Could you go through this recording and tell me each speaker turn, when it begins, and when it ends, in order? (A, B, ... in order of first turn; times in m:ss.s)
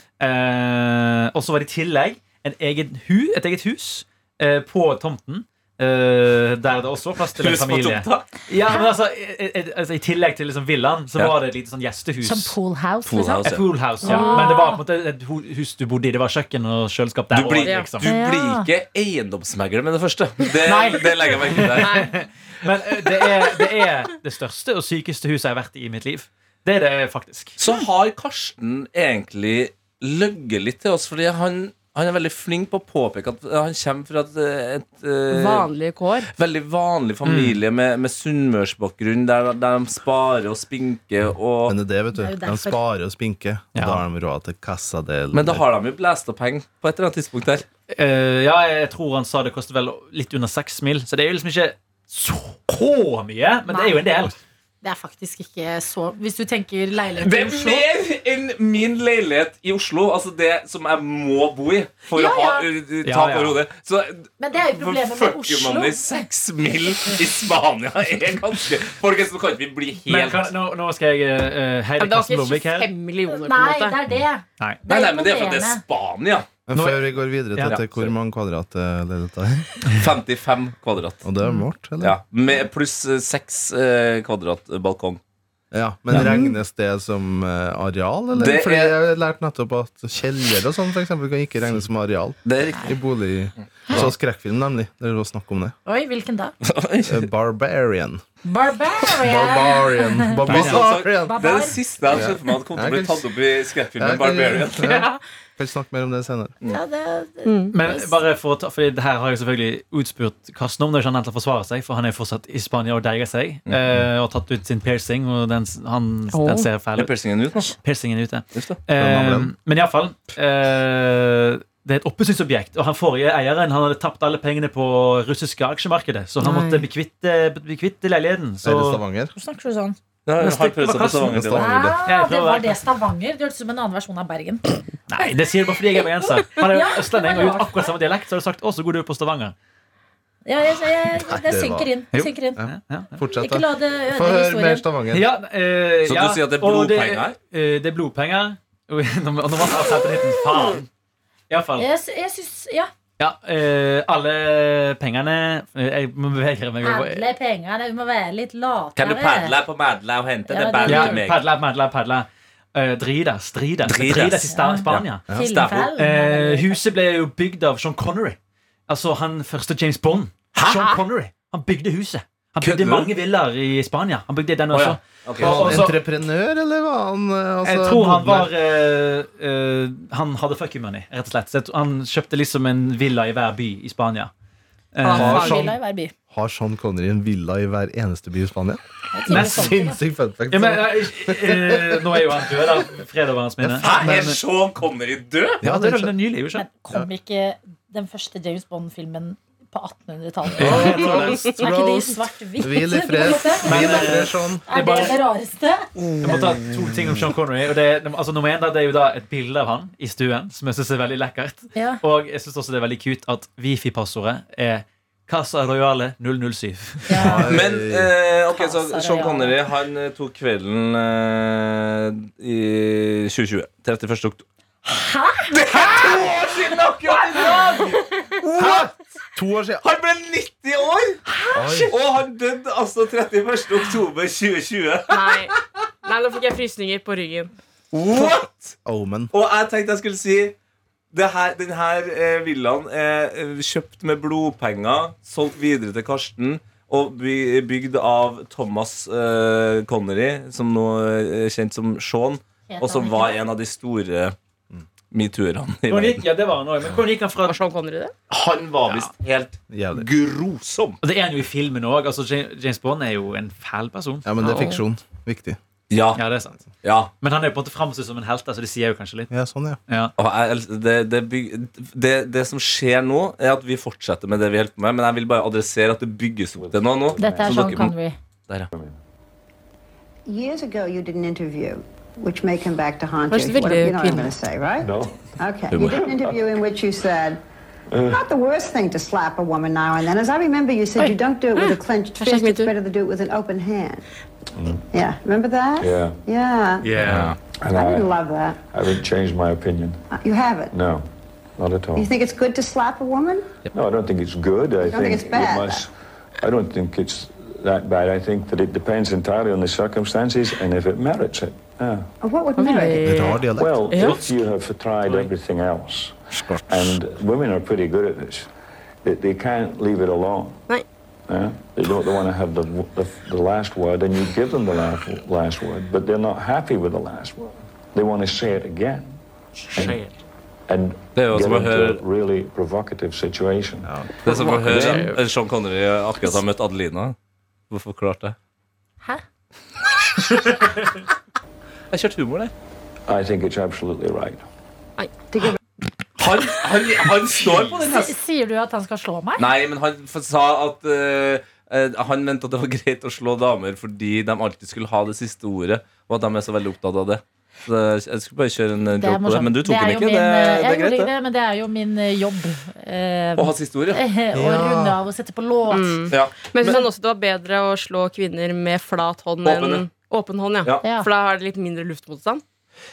0:00.2-0:12.6 A
0:07.4-0:08.3 B
0:12.2-0:14.8 C
0:13.0-0:13.7 B
0:13.4-0:18.1 A
0:14.0-0:14.7 D
0:17.3-0:22.0 B
0:17.6-0:17.9 D
0:18.0-0:18.7 C
0:20.6-0:27.6 A
0:21.8-0:22.2 D
0:27.6-0:35.7 B
0:35.3-0:36.3 D
0:36.3-0:41.8 B
0:37.2-0:37.6 A
0:41.7-0:45.6 E
0:42.2-0:42.8 C
0:43.8-0:44.0 A
0:45.3-0:47.7 B
0:47.9-0:54.4 A
0:53.7-0:54.2 C
0:54.8-0:57.9 C
0:57.2-1:10.5 B
1:02.1-1:02.7 C
1:03.0-1:03.6 A
1:04.4-1:06.2 C
1:10.1-1:12.9 A
1:12.0-1:14.0 D
1:13.3-1:15.8 C
1:14.9-1:16.6 B
1:16.7-1:19.8 E
1:16.7-1:18.1 A
1:20.0-1:21.2 B
1:21.2-1:22.2 E
1:22.0-1:25.2 B
1:25.7-1:35.8 E
1:28.4-1:29.0 B
1:32.4-1:32.9 B
1:33.9-1:34.1 B
1:35.9-1:36.6 C
1:36.6-1:37.3 B
1:37.1-1:38.2 E
1:38.4-1:42.2 C
1:39.2-1:41.5 E
1:40.4-1:45.0 B
1:40.5-1:40.8 A
1:42.1-1:43.2 E
1:44.0-1:46.6 E
1:46.7-1:48.2 C
1:47.4-1:47.7 D
1:47.7-2:09.0 A
1:53.7-1:54.0 B
1:56.3-1:56.7 D
1:57.0-1:57.8 B
1:58.6-1:58.8 B
1:59.0-1:59.5 E
2:06.4-2:06.9 D
2:08.6-2:09.3 E
2:09.4-2:10.0 C
2:10.3-2:11.7 B
2:10.4-2:12.8 A
2:11.3-2:12.0 E
2:11.6-2:14.8 C
2:15.1-2:19.6 A
2:16.7-2:17.9 C
2:20.4-2:22.6 C
2:21.2-2:22.0 E
2:22.1-2:23.1 A
2:22.6-2:25.3 E
2:23.3-2:24.9 C
2:25.1-2:30.9 A
2:26.0-2:27.4 B
2:31.5-2:31.9 A
2:31.8-2:32.9 C
2:33.2-2:37.3 A
2:36.8-2:39.6 C
2:39.0-2:41.4 B
2:40.5-2:41.2 C
2:40.8-2:45.3 A
2:43.8-2:45.9 B
2:44.5-2:46.8 C
2:45.9-2:56.0 A
2:50.5-2:51.0 B
2:52.6-2:53.1 B
2:54.7-2:55.9 B
2:55.4-2:58.5 E
2:57.6-3:04.3 A
3:04.9-3:05.6 A
3:05.1-3:06.1 C
3:05.1-3:05.8 E
3:06.3-3:12.1 E
3:09.1-3:10.0 C
3:09.3-3:09.7 A
3:10.5-3:14.4 A
3:13.7-3:15.6 B
3:14.0-3:14.4 E
3:15.6-3:16.2 E
3:15.6-3:16.7 A
3:16.5-3:25.9 C
3:20.6-3:21.4 A
3:20.6-3:24.7 E
3:23.6-3:25.2 A
3:26.2-3:37.6 A
3:31.7-3:32.0 C
3:37.1-3:37.5 C
3:37.2-3:38.1 E
3:37.5-3:44.4 B
3:38.5-3:39.6 C
3:44.9-3:46.3 C
3:45.5-3:48.9 B
3:47.3-3:47.7 C
3:48.6-3:49.8 E
3:49.8-3:51.2 B
3:51.3-3:51.9 C
3:51.5-3:51.9 E
3:51.8-3:55.3 B
3:55.1-3:57.5 D
3:57.9-3:58.8 B
3:58.8-3:59.3 E
3:59.3-4:00.6 B
4:01.1-4:14.4 B
4:12.7-4:13.5 C
4:15.1-4:16.3 B
4:15.9-4:17.6 A
4:17.4-4:18.1 D
4:18.3-4:21.0 B
4:18.9-4:19.1 A
4:19.7-4:20.1 E
4:21.0-4:24.3 A
4:24.2-4:25.6 E
4:24.4-4:24.8 D
4:25.9-4:26.2 B
4:26.2-4:26.6 A
4:26.8-4:27.1 B
4:27.2-4:29.3 A
4:29.3-4:29.8 E
4:29.9-4:30.1 A
4:30.2-4:37.9 B
4:36.6-4:37.9 F
4:37.2-4:38.2 C
4:40.3-4:47.4 G
4:43.3-4:44.3 D
4:44.8-4:46.5 F
4:45.7-4:46.0 B
4:47.9-4:48.2 F
4:48.1-4:54.0 G
4:51.0-4:52.7 D
4:54.6-4:54.9 F
4:54.9-4:57.0 G
4:55.8-4:56.2 F
4:56.8-4:57.4 A
4:57.0-4:57.4 B
4:57.0-4:58.1 F
4:57.7-4:58.6 G
4:58.7-5:00.0 F
5:00.1-5:00.7 G
5:00.7-5:01.1 F
5:01.6-5:02.1 F
5:02.0-5:03.5 G
5:03.7-5:12.1 F
5:04.8-5:05.9 G
5:12.2-5:13.4 G
5:12.6-5:13.4 D
5:13.0-5:14.1 E
5:13.5-5:18.5 F
5:13.9-5:14.2 D
5:16.4-5:17.0 E
5:19.0-5:20.7 F
5:21.3-5:29.2 F
5:29.7-5:30.0 F
5:29.8-5:30.1 A
5:30.7-5:35.1 F
5:31.1-5:32.0 B
5:33.8-5:35.1 E
5:34.2-5:37.2 B
5:37.7-5:38.4 B
5:41.9-5:42.5 B
5:43.1-5:44.4 F
5:45.3-5:45.6 G
5:46.2-5:48.2 B
5:47.8-5:49.5 C
5:49.4-6:01.1 B
5:59.0-6:06.1 C
6:03.4-6:04.0 B
6:04.3-6:05.0 E
6:05.7-6:12.4 D
6:06.1-6:06.8 B
6:09.4-6:09.8 B